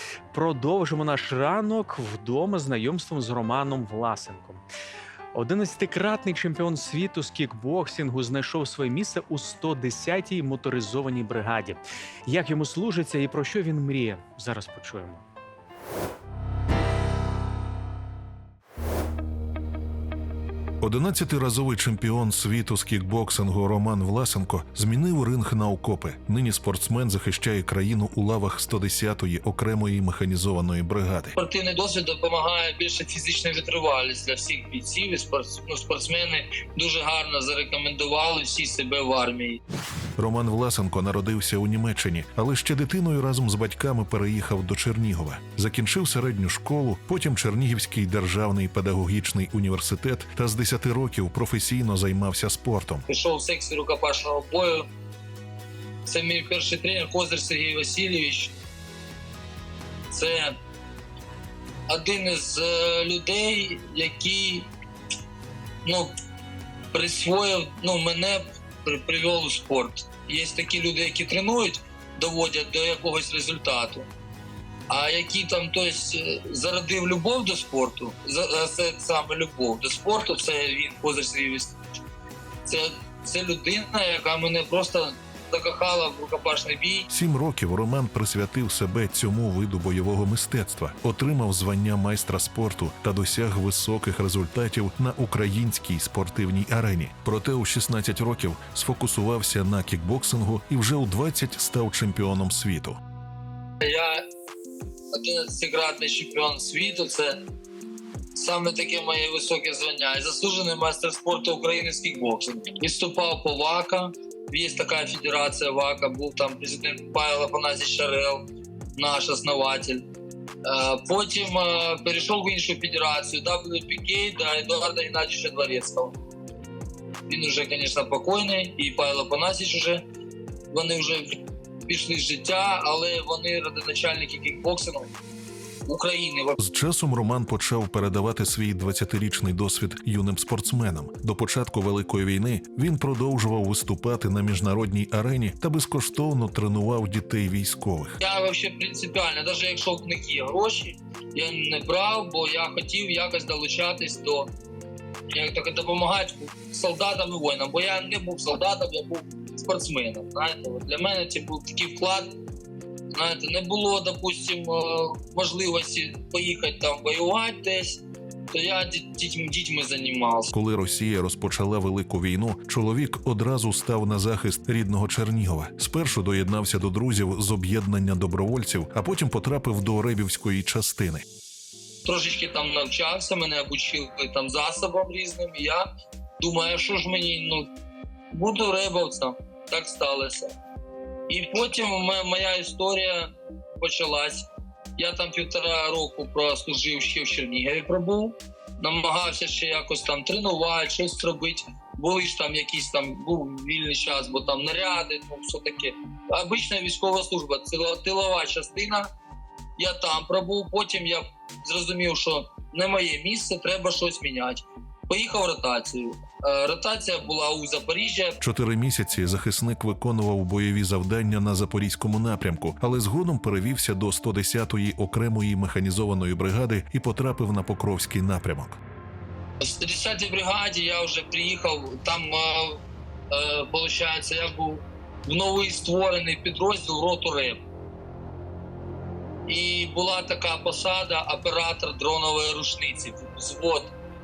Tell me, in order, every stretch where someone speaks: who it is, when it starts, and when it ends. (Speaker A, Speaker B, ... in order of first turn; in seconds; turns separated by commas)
Speaker A: 0.3-4.6, Speaker A: 5.3-15.2, Speaker B: 20.8-31.3, Speaker C: 31.4-39.6, Speaker B: 40.2-53.0, Speaker C: 53.1-54.9, Speaker C: 56.0-58.5, Speaker C: 60.1-60.5, Speaker C: 61.9-64.7, Speaker C: 65.8-66.1, Speaker C: 66.9-74.1, Speaker C: 74.9-81.8, Speaker C: 82.6-87.1, Speaker B: 87.1-103.0, Speaker C: 103.8-104.2, Speaker C: 105.1-107.4, Speaker C: 108.3-118.4, Speaker C: 119.0-120.0, Speaker C: 120.7-126.1, Speaker C: 127.3-130.0, Speaker C: 130.7-131.2, Speaker C: 131.9-135.1, Speaker C: 135.9-136.6, Speaker B: 136.6-148.2, Speaker C: 148.2-154.5, Speaker C: 155.3-162.3, Speaker C: 163.1-170.5, Speaker B: 170.5-181.2, Speaker C: 182.0-187.7, Speaker C: 188.3-190.5, Speaker C: 191.3-193.3, Speaker C: 193.8-209.1, Speaker C: 209.8-218.4, Speaker B: 218.4-228.8, Speaker C: 229.6-237.6, Speaker C: 239.5-243.9